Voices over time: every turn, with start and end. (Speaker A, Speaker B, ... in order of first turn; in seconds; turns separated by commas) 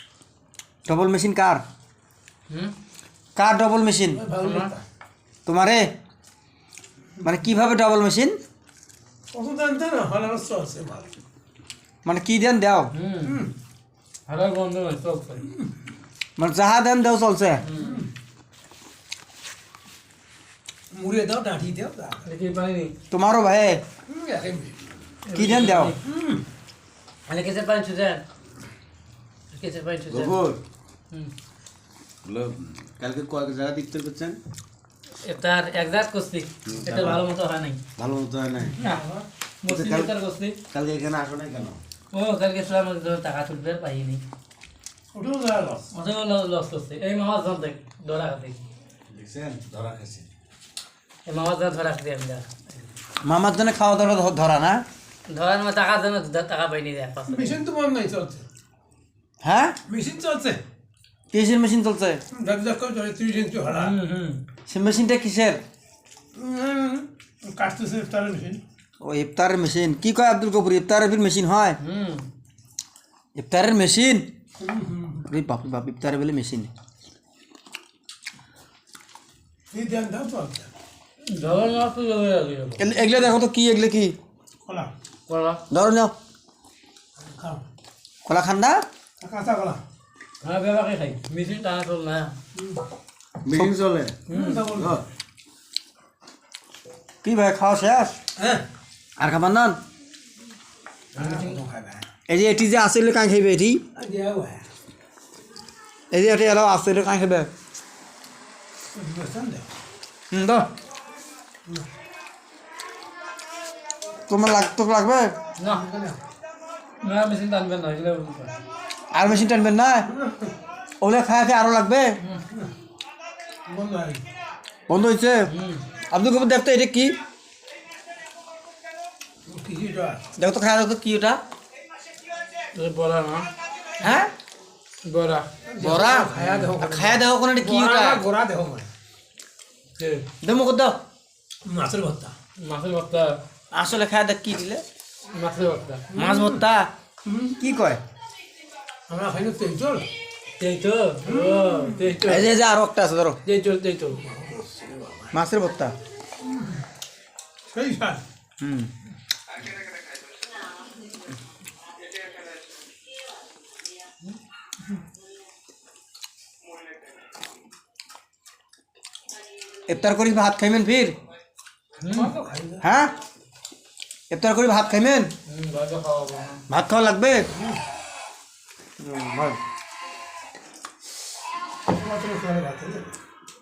Speaker A: 0.9-1.6, Speaker B: 2.5-2.7, Speaker A: 3.4-4.2, Speaker C: 4.1-4.8, Speaker B: 4.4-4.7, Speaker A: 5.5-5.9, Speaker A: 7.2-8.4, Speaker C: 9.3-11.1, Speaker A: 12.0-12.9, Speaker B: 12.9-13.4, Speaker C: 13.2-13.5, Speaker B: 14.3-15.5, Speaker A: 16.4-17.6, Speaker B: 17.6-18.0, Speaker C: 17.8-18.1, Speaker C: 20.9-22.3, Speaker B: 22.2-22.9, Speaker A: 23.1-23.8, Speaker C: 24.1-24.8, Speaker B: 25.3-26.0, Speaker A: 25.3-25.9, Speaker C: 26.0-26.4, Speaker B: 27.3-28.2, Speaker B: 29.5-30.4, Speaker D: 30.1-30.6, Speaker D: 32.2-34.4, Speaker B: 35.2-37.8, Speaker D: 36.7-37.2, Speaker D: 38.0-38.8, Speaker C: 38.6-39.3, Speaker B: 39.6-40.6, Speaker D: 39.7-40.1, Speaker D: 40.7-41.8, Speaker B: 42.1-44.2, Speaker C: 45.1-45.9, Speaker B: 45.9-48.6, Speaker D: 49.1-50.3, Speaker B: 51.3-52.5, Speaker A: 53.2-54.8, Speaker B: 55.3-57.5, Speaker C: 57.3-58.5, Speaker A: 59.4-59.8, Speaker C: 59.9-60.6, Speaker A: 61.3-62.2, Speaker C: 62.3-64.0, Speaker B: 63.7-64.4, Speaker A: 64.7-65.6, Speaker C: 66.3-68.6, Speaker A: 69.0-71.8, Speaker B: 71.8-72.3, Speaker A: 73.3-74.3, Speaker C: 74.6-75.3, Speaker A: 75.3-76.7, Speaker C: 79.7-80.7, Speaker B: 81.3-82.9, Speaker A: 82.8-84.2, Speaker C: 84.7-84.9, Speaker B: 85.3-85.6, Speaker A: 85.7-86.1, Speaker C: 87.2-87.6, Speaker A: 88.3-88.8, Speaker C: 89.2-89.8, Speaker B: 90.4-92.4, Speaker C: 92.5-92.8, Speaker D: 93.5-94.2, Speaker B: 94.3-94.7, Speaker C: 94.3-95.0, Speaker D: 94.7-95.0, Speaker A: 97.2-98.2, Speaker C: 98.4-98.6, Speaker A: 99.2-99.8, Speaker C: 101.2-102.1, Speaker B: 101.2-101.6, Speaker A: 102.3-103.8, Speaker C: 104.0-104.7, Speaker A: 106.1-107.5, Speaker C: 109.0-109.7, Speaker A: 110.3-110.7, Speaker A: 114.3-115.3, Speaker B: 115.6-115.9, Speaker C: 115.7-116.2, Speaker B: 117.0-118.6, Speaker A: 119.1-120.1, Speaker C: 120.1-120.5, Speaker A: 121.0-122.2, Speaker C: 123.7-124.3, Speaker A: 124.9-125.5, Speaker B: 125.5-125.8, Speaker A: 126.1-127.2, Speaker C: 129.5-130.2, Speaker A: 130.4-131.4, Speaker B: 132.7-133.5, Speaker A: 134.0-134.3, Speaker B: 135.1-135.5, Speaker C: 135.7-138.9, Speaker A: 135.8-138.2, Speaker B: 136.3-136.7, Speaker B: 140.0-140.2, Speaker A: 140.4-141.0, Speaker C: 141.7-142.3, Speaker B: 142.6-143.4, Speaker A: 143.7-144.8, Speaker B: 145.3-146.1, Speaker C: 146.1-146.6, Speaker A: 146.1-146.9, Speaker C: 147.2-147.6, Speaker A: 147.6-148.0, Speaker C: 149.1-150.1, Speaker B: 150.6-152.5, Speaker C: 151.2-152.2, Speaker A: 152.2-153.4, Speaker B: 153.5-154.2, Speaker C: 154.1-155.3, Speaker A: 155.3-155.9, Speaker C: 156.4-156.8, Speaker C: 157.7-158.2, Speaker A: 158.6-158.9, Speaker A: 169.9-171.2, Speaker B: 172.0-172.3, Speaker C: 172.1-172.9, Speaker A: 172.8-173.1, Speaker A: 174.3-175.3, Speaker B: 175.5-176.6, Speaker A: 176.7-177.5, Speaker C: 177.5-177.8, Speaker A: 179.0-179.6, Speaker C: 181.9-183.1